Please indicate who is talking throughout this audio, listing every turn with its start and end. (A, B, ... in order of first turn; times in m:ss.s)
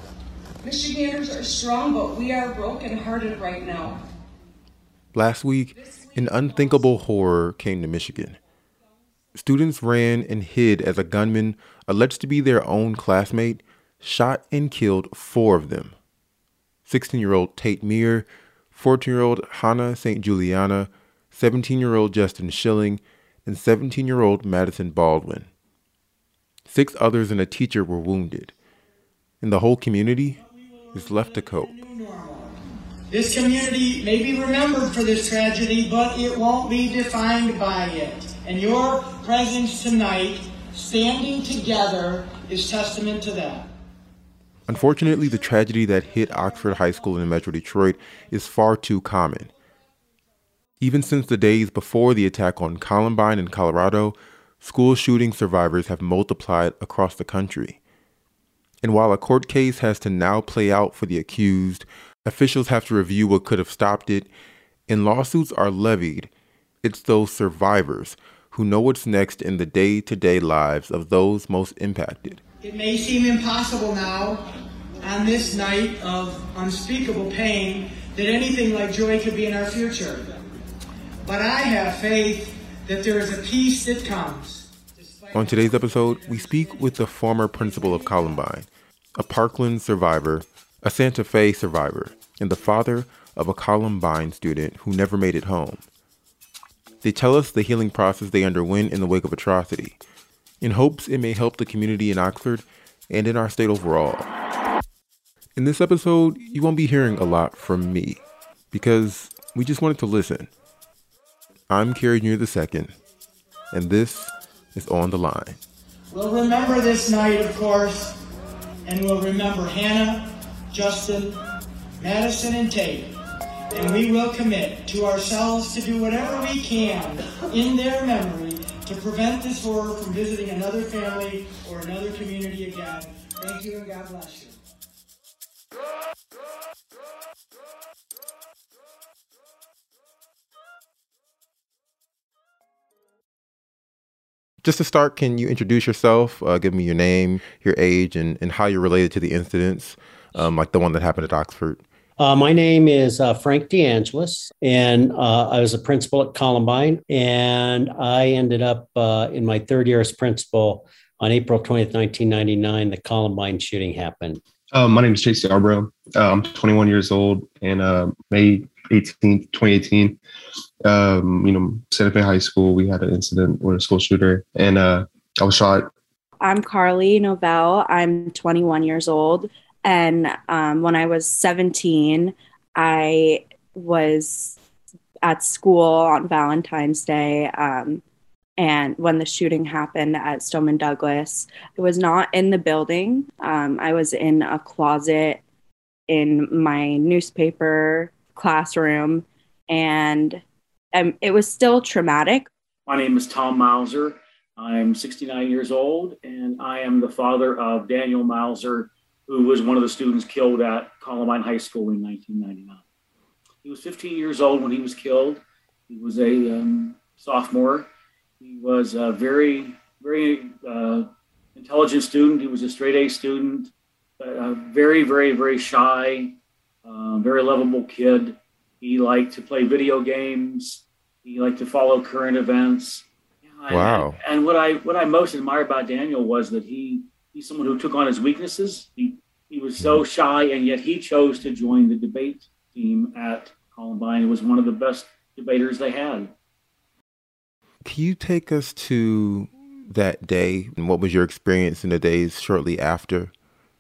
0:00.6-0:04.0 A
0:05.1-0:08.4 B
0:05.8-0:06.1 A
0:09.4-0:16.0 B
0:16.9-0:25.5 B
0:26.7-0:28.5 B
0:29.4-0:30.4 B
0:30.4-0:32.6 C
0:30.9-0:31.8 B
0:33.1-0:43.7 C
0:44.7-0:49.5 B
0:45.0-0:45.3 C
0:50.8-0:57.8 B
0:58.8-1:04.3 B
1:04.9-1:06.3 B
1:06.8-1:12.4 B
1:12.6-1:20.4 C
1:21.2-1:28.5 C
1:25.3-1:35.8 B
1:37.0-1:40.0 B
1:40.6-1:44.3 B
1:45.6-1:48.2 B
1:48.7-1:50.5 B
1:51.7-1:52.9 B
1:53.7-1:55.6 B
1:56.1-1:58.2 C
1:58.8-2:01.4 C
2:02.0-2:03.1 C
2:03.7-2:14.6 C
2:24.6-2:31.8 B
2:32.2-2:44.4 D
2:44.7-2:50.2 E
2:50.8-2:55.9 E
2:56.4-3:04.6 F
3:05.2-3:08.0 F
3:08.6-3:15.4 F
3:16.1-3:20.4 F
3:20.9-3:22.5 F
3:22.9-3:32.8 G
3:33.6-3:37.9 G
3:38.4-4:06.3 G
3:53.7-3:54.2 B
4:07.8-4:13.3 B